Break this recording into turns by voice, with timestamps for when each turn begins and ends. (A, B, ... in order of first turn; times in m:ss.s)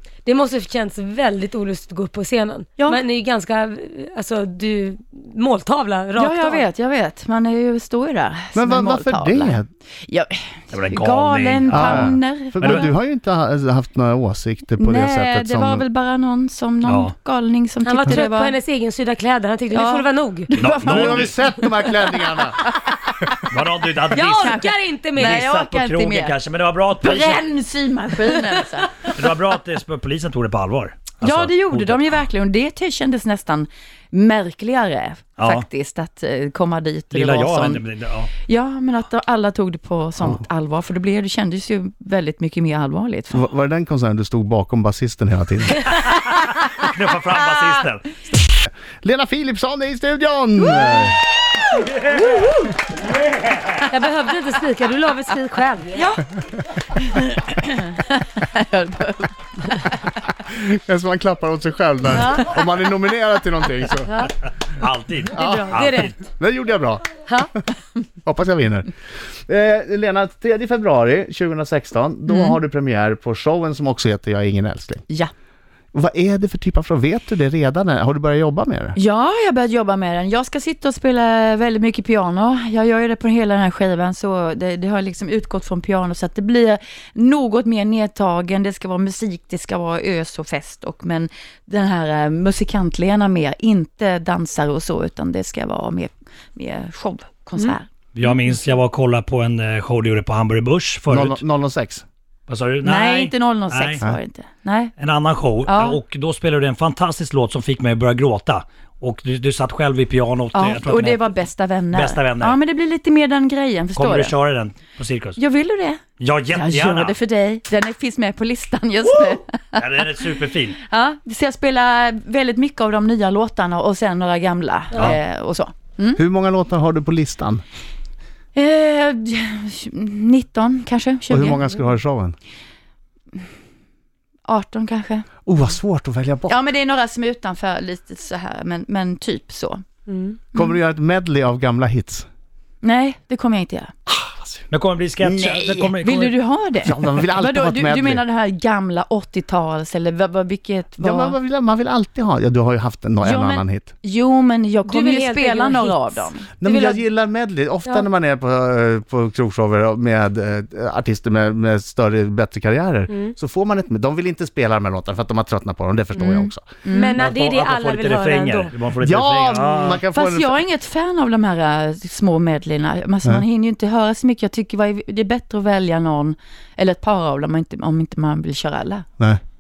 0:00.2-0:06.7 A
0:02.8-0:03.0 B
0:06.2-0:12.8 B
0:08.5-0:09.7 C
0:10.7-0:12.9 D
0:11.7-0:15.8 C
0:14.8-0:18.6 B
0:16.8-0:17.1 D
0:17.8-0:20.6 A
0:19.7-0:23.4 B
0:20.6-0:21.4 D
0:20.7-0:22.6 C
0:23.5-0:27.4 D
0:24.1-0:25.4 A
0:24.3-0:26.4 B
0:27.0-0:29.1 B
0:29.0-0:32.2 D
0:31.2-0:37.8 B
0:35.4-0:35.7 D
0:37.1-0:38.3 D
0:38.5-0:43.5 B
0:43.3-0:45.8 C
0:46.1-0:48.2 D
0:48.6-0:51.2 C
0:50.7-0:51.1 B
0:52.0-0:52.4 D
0:53.1-0:53.8 D
0:53.9-0:56.1 A
0:57.0-0:59.8 B
1:00.5-1:04.2 C
1:04.1-1:04.3 A
1:04.8-1:06.1 D
1:05.3-1:07.6 C
1:05.4-1:06.2 A
1:08.2-1:08.9 C
1:09.5-1:15.0 C
1:12.3-1:12.6 B
1:15.9-1:19.0 C
1:19.0-1:37.9 B
1:38.2-1:41.4 D
1:41.1-1:42.0 C
1:42.5-1:44.0 D
1:42.8-1:44.9 B
1:45.0-1:52.6 D
1:45.6-1:46.0 B
1:50.5-1:54.4 B
1:54.0-1:55.4 D
1:55.4-1:56.0 B
1:56.2-1:57.2 D
1:56.5-2:00.2 B
1:59.1-2:00.8 D
2:00.8-2:06.2 B
2:06.2-2:07.6 C
2:08.6-2:11.7 B
2:11.3-2:12.4 C
2:14.5-2:15.3 B
2:15.5-2:16.6 C
2:16.5-2:19.8 B
2:20.1-2:20.4 A
2:20.6-2:22.3 C
2:22.8-2:23.9 B
2:24.1-2:24.6 C
2:24.7-2:26.4 D
2:25.3-2:31.4 B
2:26.8-2:28.2 C
2:31.0-2:33.9 C
2:33.2-2:36.5 B
2:34.9-2:37.0 A
2:36.6-2:46.7 C
2:43.1-2:43.4 A
2:46.3-2:47.3 B
2:46.9-2:48.8 A
2:47.2-2:50.0 D
2:49.0-2:50.6 C
2:50.1-2:59.1 B